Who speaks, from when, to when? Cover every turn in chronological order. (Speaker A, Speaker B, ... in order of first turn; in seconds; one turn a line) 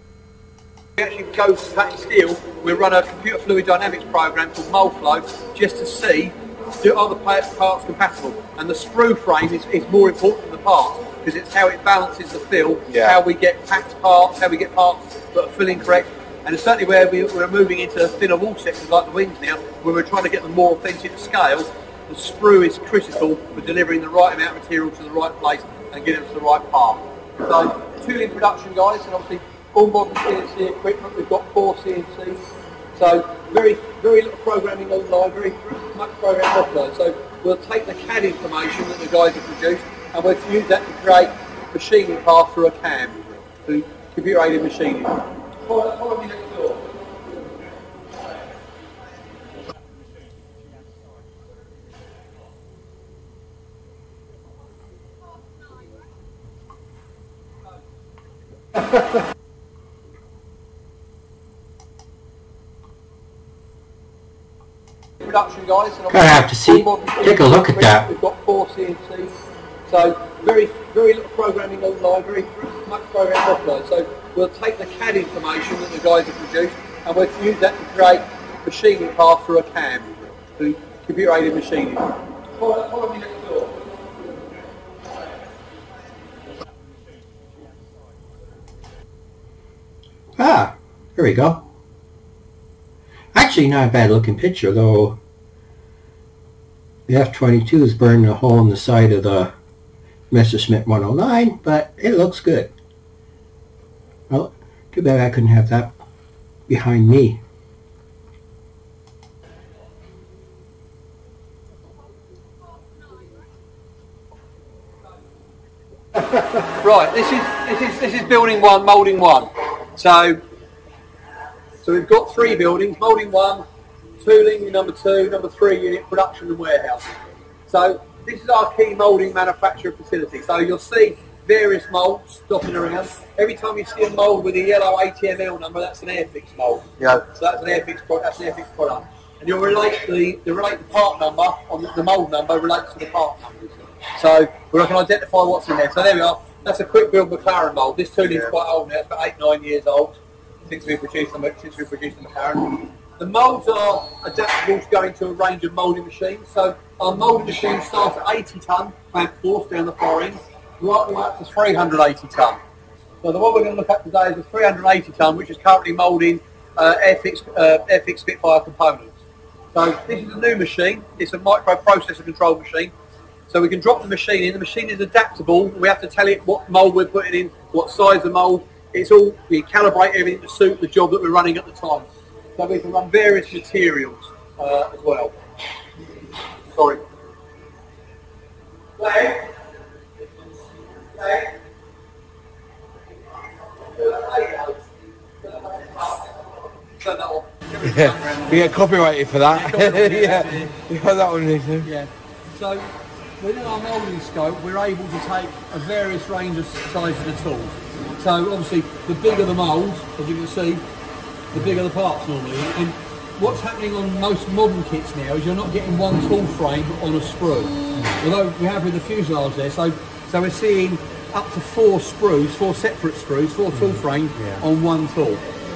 Speaker A: 1.0-32.4
Speaker B: 12.9-13.2
Speaker A: 33.0-46.9
Speaker A: 65.2-69.3
Speaker C: 66.1-68.1
Speaker A: 69.9-83.8
Speaker C: 90.4-91.7
Speaker C: 93.3-95.2
Speaker C: 97.1-99.5
Speaker C: 100.3-102.7
Speaker C: 104.3-106.0
Speaker C: 106.7-107.4
Speaker A: 116.2-120.4
Speaker A: 121.8-123.6
Speaker A: 124.2-127.1
Speaker A: 127.7-162.6
Speaker A: 163.2-169.2
Speaker A: 169.7-172.9
Speaker A: 173.5-185.3
Speaker A: 186.8-187.0
Speaker A: 189.0-189.5
Speaker A: 191.2-191.5
Speaker A: 193.8-194.8
Speaker A: 195.4-196.3
Speaker A: 197.0-198.7
Speaker B: 197.8-201.9
Speaker A: 199.5-200.8
Speaker A: 201.8-202.9
Speaker A: 203.4-210.8
Speaker A: 211.5-225.4
Speaker B: 224.4-224.6